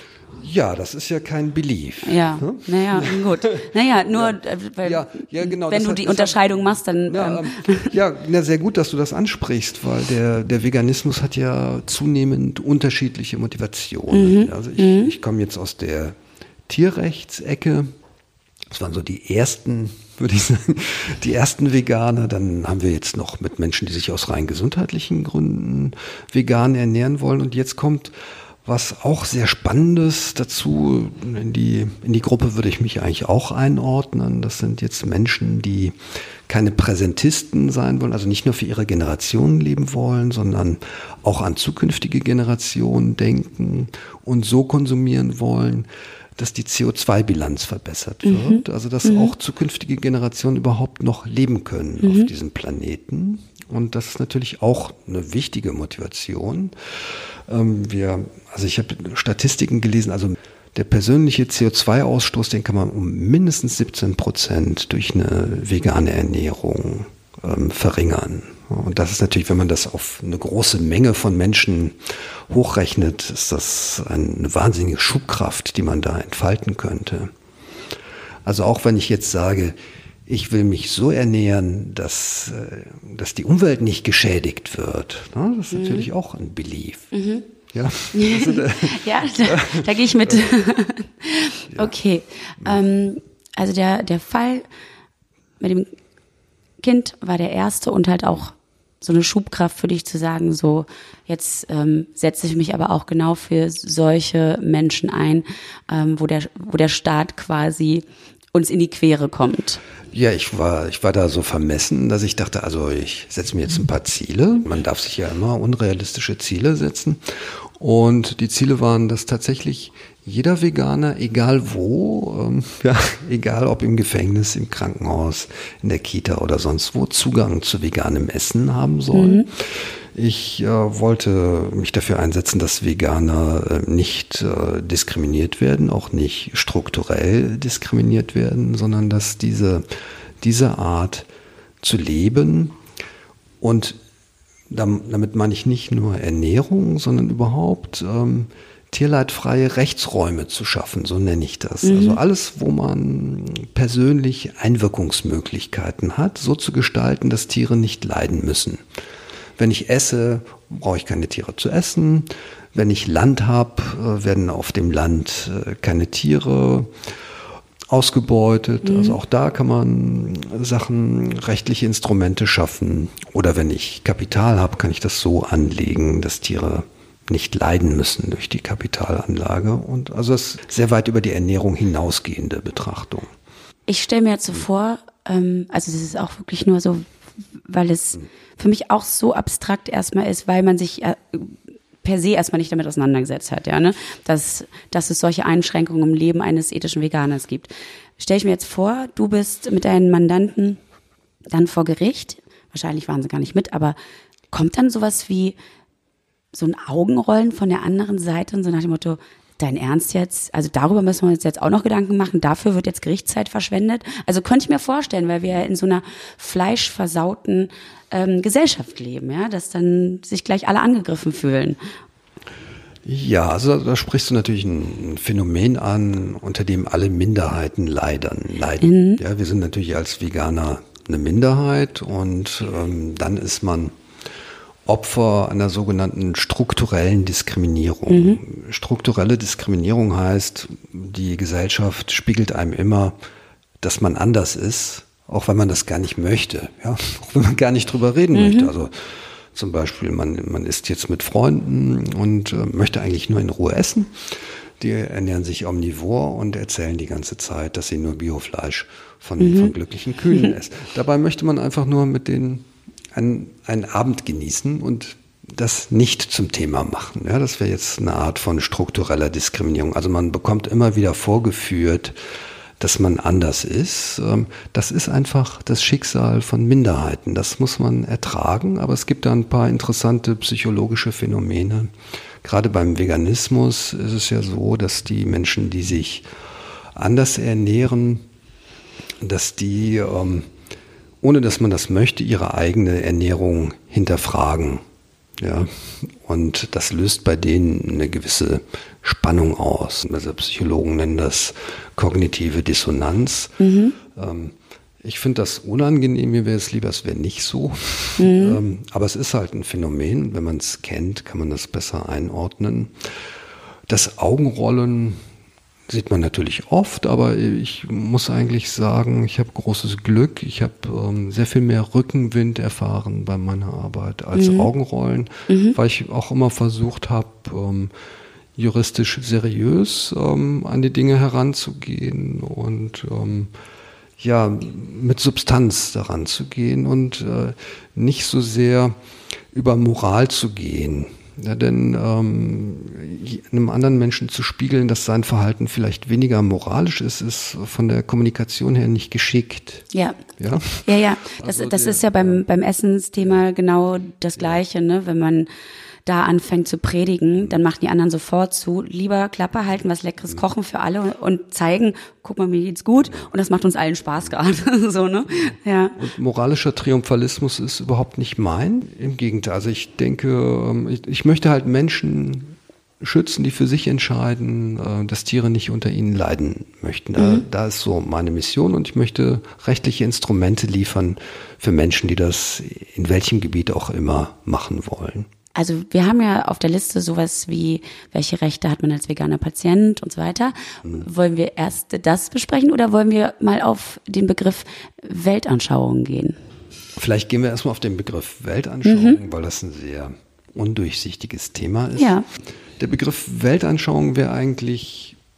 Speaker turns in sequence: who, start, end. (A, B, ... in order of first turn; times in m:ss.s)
0:00.4-0:16.2 A
0:02.0-0:08.0 B
0:14.1-0:15.1 B
0:16.7-0:17.9 A
0:18.7-0:28.1 A
0:28.6-0:35.9 A
0:36.5-1:17.3 A
0:48.2-0:49.3 B
0:52.0-0:52.3 B
1:18.4-1:27.1 A
1:25.7-1:26.1 B
1:27.1-1:27.4 B
1:27.7-1:30.5 A
1:28.1-1:34.7 B
1:35.6-1:35.9 B
1:36.8-1:49.8 B
1:50.1-2:19.8 A
2:09.1-2:09.5 B
2:20.4-2:21.3 A
2:21.8-2:22.8 A
2:23.6-2:24.0 A
2:24.7-2:38.8 A
2:31.8-2:32.2 B
2:39.6-2:46.9 A
2:47.9-3:03.3 A
2:48.8-2:49.2 B
3:03.9-3:07.1 B
3:07.6-3:20.8 B
3:21.5-3:24.0 B
3:24.5-3:25.6 B
3:26.5-3:41.8 B
3:43.0-3:53.9 A
3:48.8-3:49.2 B
3:54.8-4:03.2 A
3:58.1-3:58.4 B
4:03.8-4:32.2 A
4:08.3-4:08.7 B
4:19.4-4:19.7 B
4:32.8-4:41.9 A
4:42.4-4:46.3 A
4:46.9-4:48.2 A
4:49.2-4:50.5 A
4:51.2-4:54.8 A
4:55.4-5:13.0 A
5:03.6-5:04.0 B
5:08.2-5:08.6 B
5:13.9-5:15.2 A
5:15.9-5:27.9 A
5:24.3-5:24.7 B
5:25.5-5:25.8 B
5:28.6-5:33.5 A
5:34.2-5:39.0 A
5:39.5-5:49.8 A
5:49.9-5:50.2 B
5:50.4-5:52.4 A
5:50.8-5:55.5 B
5:56.0-6:06.0 B
6:06.0-6:25.3 A
6:17.2-6:17.4 B
6:25.5-6:36.4 B
6:37.0-6:42.2 A
6:38.8-6:39.2 B
6:42.0-6:42.2 B
6:42.8-6:45.2 A